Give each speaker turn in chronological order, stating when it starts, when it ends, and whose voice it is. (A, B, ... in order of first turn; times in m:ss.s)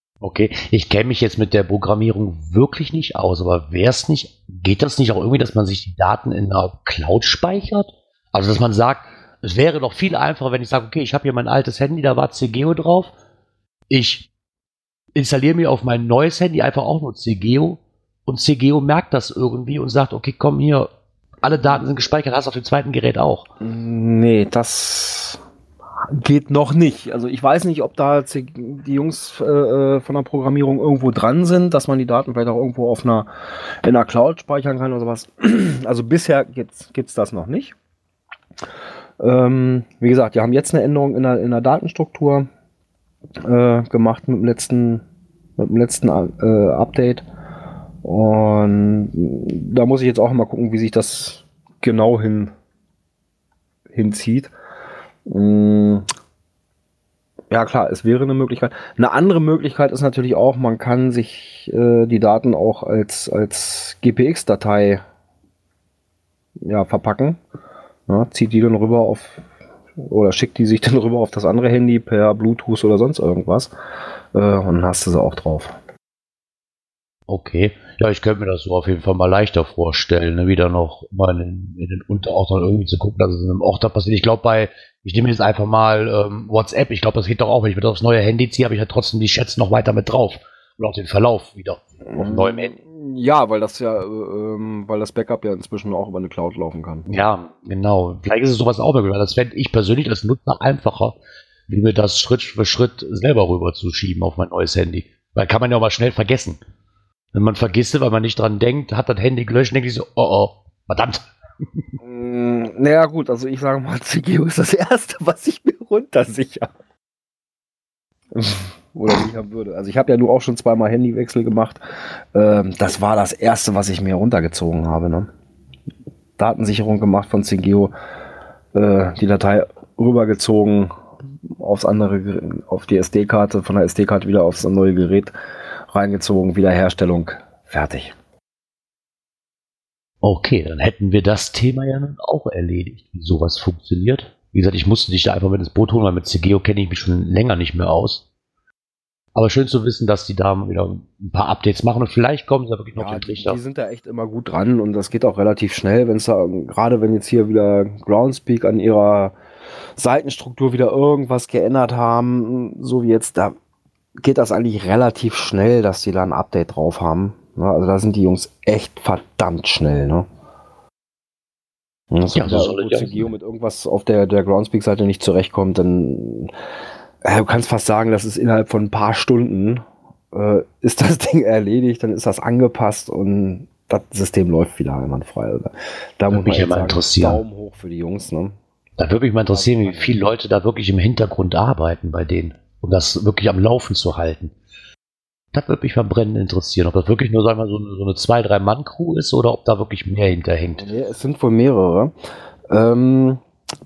0:00.2-0:13.1 A
0:13.9-0:14.3 A
0:15.2-0:20.9 A
0:21.4-0:23.5 A
0:23.6-0:25.4 B
0:26.0-0:37.8 B
0:39.2-0:42.5 B
0:43.4-0:45.0 B
0:45.6-0:47.2 B
0:48.0-0:52.5 B
0:53.9-0:54.5 B
0:55.3-0:56.1 B
0:57.5-1:05.0 B
1:06.6-1:07.4 B
1:08.1-1:09.5 B
1:10.0-1:13.7 B
1:14.3-1:15.8 B
1:17.3-1:32.8 A
1:32.1-1:37.1 B
1:37.1-1:41.2 A
1:41.7-1:46.6 A
1:47.3-1:51.3 A
1:52.0-1:56.7 B
1:58.3-2:01.8 B
2:02.3-2:05.3 B
2:06.4-2:07.9 B
2:08.7-2:10.9 B
2:11.5-2:15.3 B
2:15.9-2:18.2 B
2:20.2-2:28.2 A
2:29.4-2:33.6 A
2:33.0-2:39.4 B
2:40.0-2:43.6 B
2:44.2-2:50.3 B
2:52.1-2:56.5 B
2:52.3-2:53.3 A
2:57.2-3:08.6 B
3:06.3-3:07.4 A
3:09.0-3:14.5 A
3:09.5-3:10.2 B
3:15.5-3:20.9 A
3:20.8-3:22.1 B
3:22.7-3:23.4 B